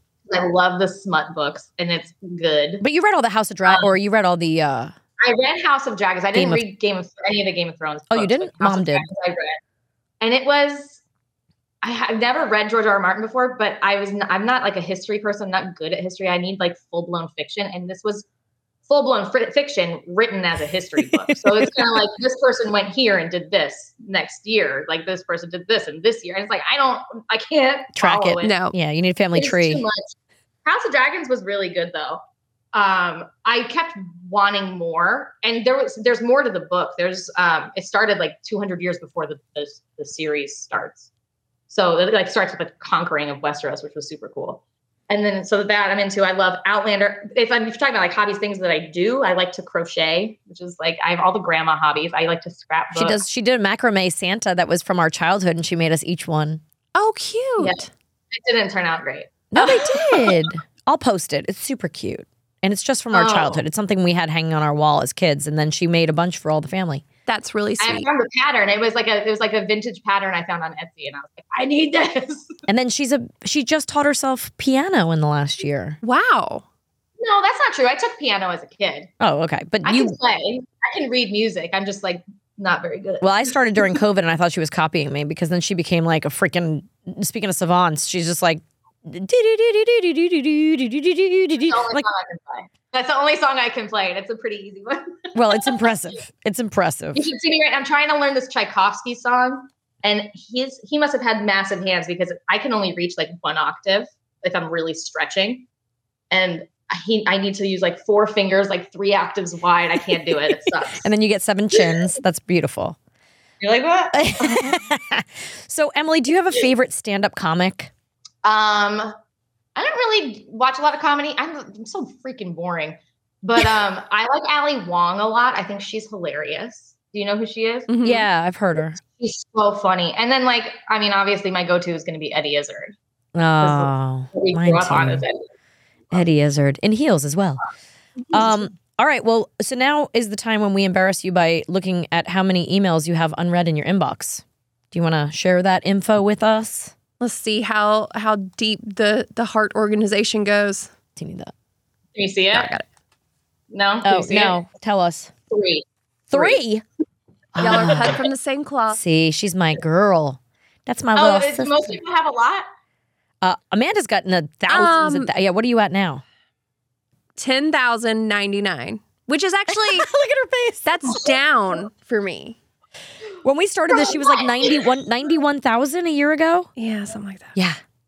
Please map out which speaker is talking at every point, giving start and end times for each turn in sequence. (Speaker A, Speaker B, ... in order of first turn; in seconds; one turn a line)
Speaker A: 0.3-2.8
Speaker B: 2.8-4.9
Speaker A: 3.6-3.9
Speaker A: 5.2-9.6
Speaker B: 6.3-6.6
Speaker B: 8.1-9.1
Speaker A: 10.2-11.0
Speaker A: 11.8-18.2
Speaker A: 18.9-28.6
Speaker B: 21.3-21.9
Speaker B: 27.9-29.8
Speaker C: 28.4-28.7
Speaker A: 29.3-32.2
Speaker A: 32.7-41.1
Speaker A: 41.7-53.2
Speaker B: 52.9-56.6
Speaker C: 56.9-57.9
Speaker A: 57.6-60.3
Speaker B: 59.5-67.0
Speaker A: 63.1-63.6
Speaker C: 67.2-68.1
Speaker A: 67.8-72.5
Speaker B: 72.7-76.0
Speaker C: 76.0-76.6
Speaker A: 77.2-79.1
Speaker B: 79.2-80.2
Speaker A: 79.8-84.0
Speaker B: 83.2-92.0
Speaker A: 91.6-95.8
Speaker B: 95.3-97.3
Speaker A: 97.1-105.7
Speaker A: 106.3-111.1
Speaker B: 111.0-113.0
Speaker A: 113.6-114.8
Speaker B: 114.1-117.9
Speaker A: 118.4-119.1
Speaker A: 119.8-127.9
Speaker C: 127.9-128.2
Speaker B: 128.0-129.0
Speaker A: 129.2-132.9
Speaker B: 133.3-135.2
Speaker A: 133.6-135.4
Speaker B: 136.1-137.6
Speaker B: 138.3-146.9
Speaker C: 147.2-150.9
Speaker B: 151.2-151.5
Speaker A: 152.2-152.7
Speaker C: 152.5-152.8
Speaker A: 153.7-154.5
Speaker B: 154.0-155.3
Speaker A: 155.5-156.6
Speaker B: 156.3-156.8
Speaker B: 157.5-158.2
Speaker C: 157.6-159.0
Speaker A: 157.6-158.1
Speaker B: 158.9-162.0
Speaker A: 161.2-162.7
Speaker B: 163.4-166.2
Speaker C: 164.7-165.3
Speaker C: 167.3-170.1
Speaker B: 169.7-171.2
Speaker C: 170.8-172.6
Speaker B: 173.4-176.7
Speaker A: 173.9-174.7
Speaker C: 176.8-177.5